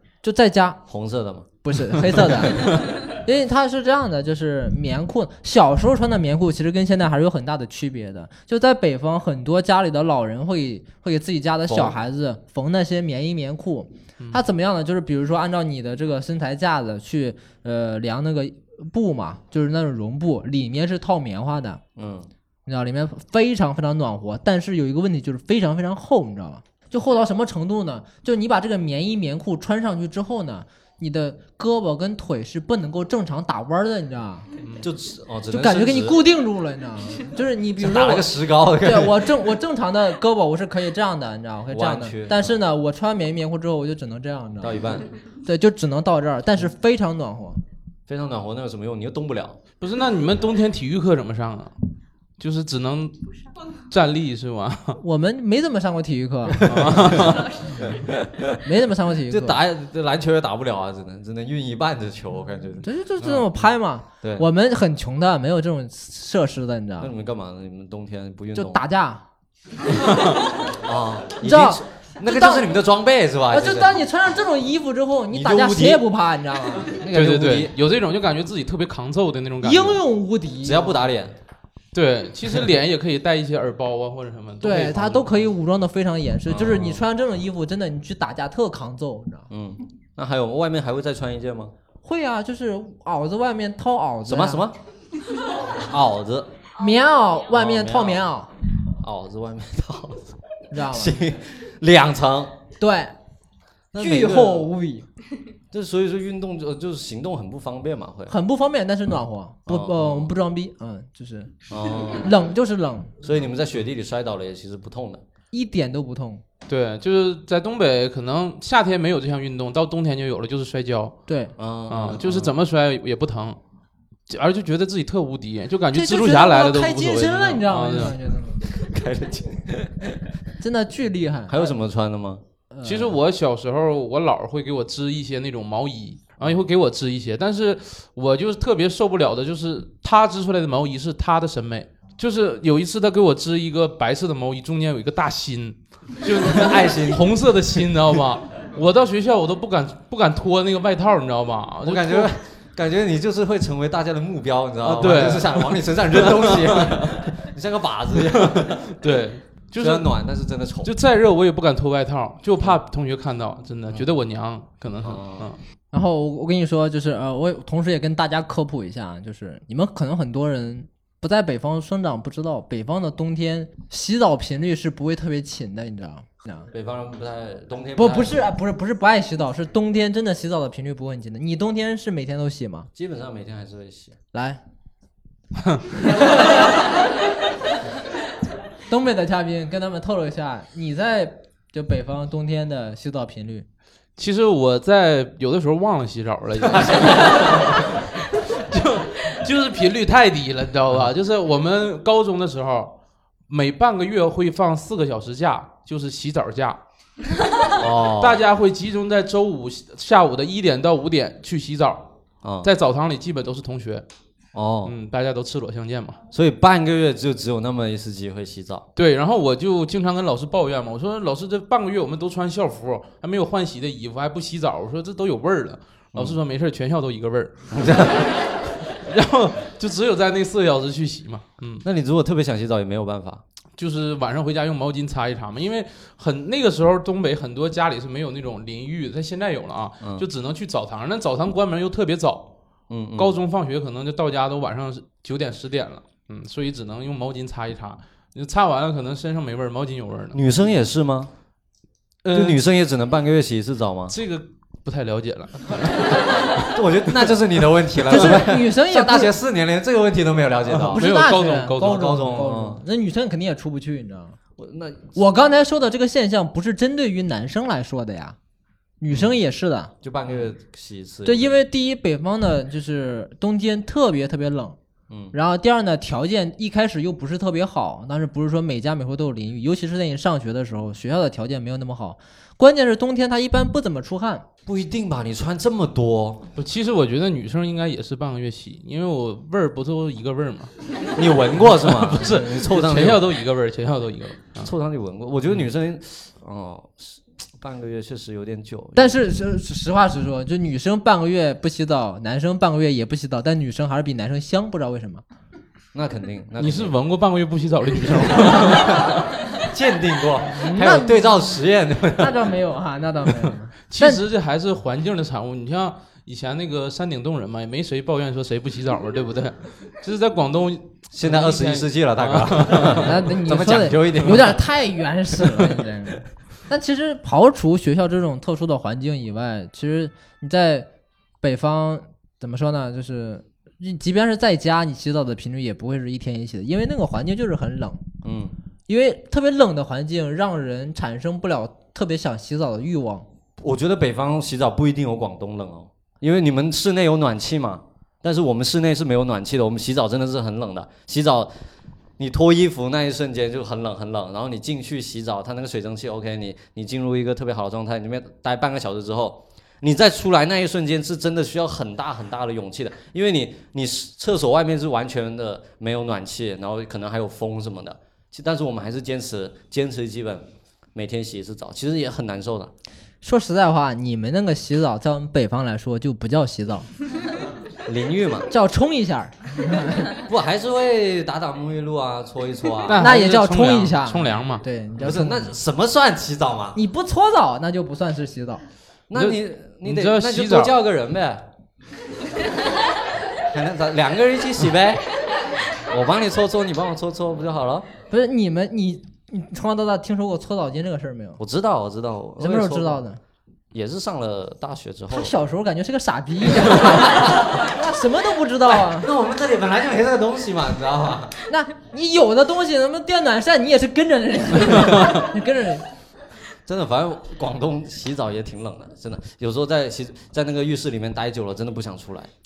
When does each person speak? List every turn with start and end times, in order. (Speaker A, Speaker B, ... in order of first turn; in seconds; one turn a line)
Speaker A: 0.2-0.8
Speaker B: 0.8-1.5
Speaker A: 1.6-21.8
Speaker B: 11.7-12.0
Speaker B: 21.9-22.3
Speaker A: 22.6-34.5
Speaker B: 34.8-36.2
Speaker A: 35.5-47.6
Speaker B: 37.8-39.4
Speaker B: 41.7-42.6
Speaker B: 44.6-45.1
Speaker B: 48.1-49.6
Speaker C: 49.8-51.7
Speaker C: 52.4-53.2
Speaker C: 53.9-55.0
Speaker A: 55.0-56.7
Speaker B: 56.5-58.6
Speaker C: 56.6-57.6
Speaker A: 58.6-59.6
Speaker B: 59.3-62.9
Speaker A: 62.8-67.1
Speaker C: 63.2-63.5
Speaker B: 67.0-68.8
Speaker A: 68.5-69.2
Speaker C: 70.1-70.4
Speaker B: 70.7-74.0
Speaker A: 71.4-72.8
Speaker A: 73.5-77.0
Speaker B: 75.3-76.1
Speaker B: 76.9-77.7
Speaker C: 77.1-80.0
Speaker A: 79.6-81.0
Speaker B: 80.6-81.3
Speaker C: 81.9-85.5
Speaker A: 84.6-89.5
Speaker B: 86.5-87.0
Speaker B: 89.5-91.7
Speaker A: 92.0-94.7
Speaker B: 94.2-94.8
Speaker B: 95.7-96.5
Speaker A: 96.8-98.5
Speaker B: 97.5-98.2
Speaker B: 98.9-102.6
Speaker A: 100.7-101.2
Speaker A: 102.8-103.1
Speaker B: 103.9-104.7
Speaker A: 104.0-105.1
Speaker B: 105.7-108.3
Speaker A: 108.3-111.5
Speaker B: 109.7-110.3
Speaker B: 111.7-112.4
Speaker A: 112.1-113.1
Speaker B: 113.2-115.2
Speaker A: 115.5-116.4
Speaker C: 116.7-121.2
Speaker A: 121.3-121.5
Speaker B: 121.6-122.5
Speaker C: 121.9-123.6
Speaker C: 124.3-128.2
Speaker A: 125.9-128.6
Speaker B: 128.6-130.2
Speaker A: 130.6-131.7
Speaker B: 131.5-132.4
Speaker A: 132.7-133.2
Speaker C: 132.8-152.3
Speaker B: 146.4-147.4
Speaker B: 151.8-158.9
Speaker C: 154.8-157.2
Speaker C: 158.2-160.1
Speaker B: 159.7-160.9
Speaker C: 160.8-165.6
Speaker B: 165.0-165.5
Speaker A: 165.9-176.7
Speaker B: 176.7-178.5
Speaker A: 178.0-182.9
Speaker B: 182.9-184.2
Speaker A: 184.3-184.6
Speaker A: 186.0-186.6
Speaker A: 188.9-193.7
Speaker C: 194.2-202.9
Speaker B: 196.7-197.8
Speaker C: 203.5-206.8
Speaker B: 207.7-208.4
Speaker C: 208.2-212.1
Speaker B: 212.4-212.7
Speaker C: 212.6-214.0
Speaker B: 214.5-214.9
Speaker C: 214.8-216.2
Speaker B: 216.3-218.9
Speaker C: 218.9-231.8
Speaker B: 226.1-226.4
Speaker B: 227.7-228.3
Speaker B: 231.8-233.4
Speaker C: 233.8-242.5
Speaker B: 240.0-240.3
Speaker B: 242.9-243.4
Speaker C: 243.2-250.4
Speaker B: 250.3-251.3
Speaker C: 252.2-252.6
Speaker B: 252.3-254.1
Speaker C: 254.1-256.8
Speaker B: 256.6-261.1
Speaker A: 258.1-259.3
Speaker C: 260.8-262.2
Speaker A: 260.9-264.4
Speaker B: 261.7-262.8
Speaker B: 264.6-265.1
Speaker A: 265.1-268.4
Speaker A: 269.0-269.9
Speaker B: 269.1-269.3
Speaker B: 270.0-271.6
Speaker A: 271.2-274.8
Speaker B: 275.1-275.3
Speaker A: 275.3-284.4
Speaker B: 284.6-286.5
Speaker C: 286.6-290.7
Speaker B: 291.1-293.2
Speaker C: 291.6-294.7
Speaker B: 294.6-299.2
Speaker A: 298.9-305.2
Speaker B: 305.9-306.9
Speaker C: 306.6-309.3
Speaker B: 308.0-312.5
Speaker A: 310.5-311.4
Speaker A: 312.2-314.2
Speaker C: 313.9-323.1
Speaker B: 321.1-324.6
Speaker A: 323.0-330.9
Speaker A: 331.4-338.1
Speaker B: 338.2-338.5
Speaker A: 338.9-343.2
Speaker B: 343.6-351.5
Speaker B: 352.2-372.7
Speaker A: 373.2-376.9
Speaker B: 377.8-378.5
Speaker A: 378.5-380.2
Speaker B: 380.3-383.1
Speaker C: 382.9-384.6
Speaker A: 383.0-385.5
Speaker B: 385.0-386.8
Speaker A: 386.7-388.6
Speaker B: 389.1-391.5
Speaker C: 389.1-390.8
Speaker B: 393.4-395.1
Speaker B: 395.8-397.9
Speaker A: 398.1-401.4
Speaker B: 401.4-403.0
Speaker A: 402.4-403.2
Speaker B: 403.7-405.3
Speaker A: 405.1-409.1
Speaker B: 406.8-407.6
Speaker B: 408.6-411.4
Speaker A: 411.5-415.8
Speaker B: 416.6-422.3